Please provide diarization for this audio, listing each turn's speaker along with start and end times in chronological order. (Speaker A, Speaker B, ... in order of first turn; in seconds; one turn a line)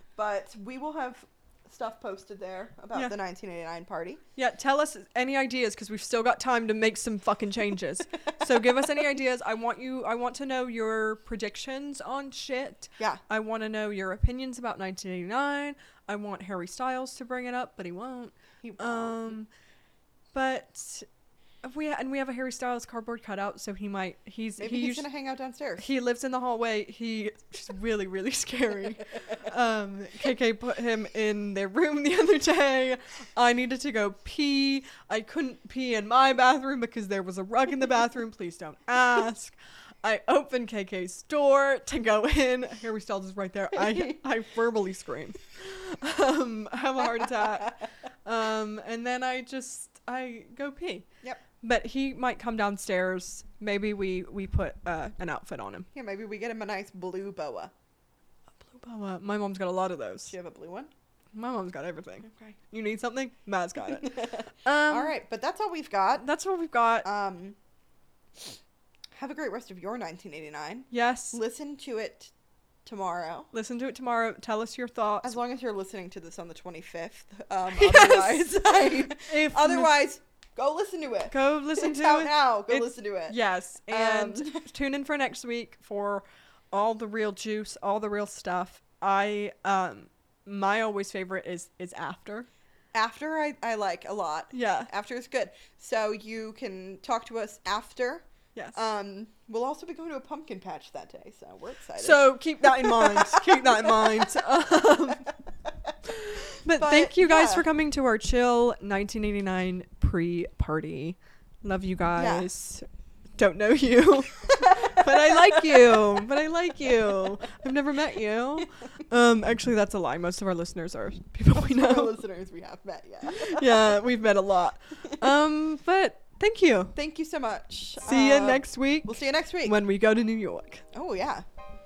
Speaker A: 0.1-4.2
Speaker B: 4.3-19.5
Speaker A: 18.6-19.4
Speaker B: 20.3-21.1
Speaker B: 21.6-25.0
Speaker A: 24.6-25.8
Speaker B: 25.8-51.1
Speaker B: 51.6-55.9
Speaker A: 55.9-57.7
Speaker B: 58.6-60.3
Speaker A: 60.2-60.9
Speaker B: 61.3-65.2
Speaker A: 62.2-62.5
Speaker A: 64.0-66.3
Speaker B: 66.2-67.1
Speaker A: 67.0-67.6
Speaker A: 69.1-72.3
Speaker B: 70.9-71.4
Speaker A: 72.8-73.5
Speaker B: 73.5-75.4
Speaker A: 75.2-84.7
Speaker B: 77.7-80.0
Speaker B: 81.3-92.5
Speaker A: 92.9-104.3
Speaker B: 94.5-94.9
Speaker B: 98.5-98.8
Speaker B: 102.0-105.3
Speaker A: 106.5-107.7
Speaker B: 106.6-122.2
Speaker A: 112.2-112.5
Speaker A: 114.7-115.0
Speaker A: 121.5-124.0
Speaker B: 123.2-126.9
Speaker A: 126.9-129.8
Speaker B: 128.0-130.8
Speaker A: 130.9-131.4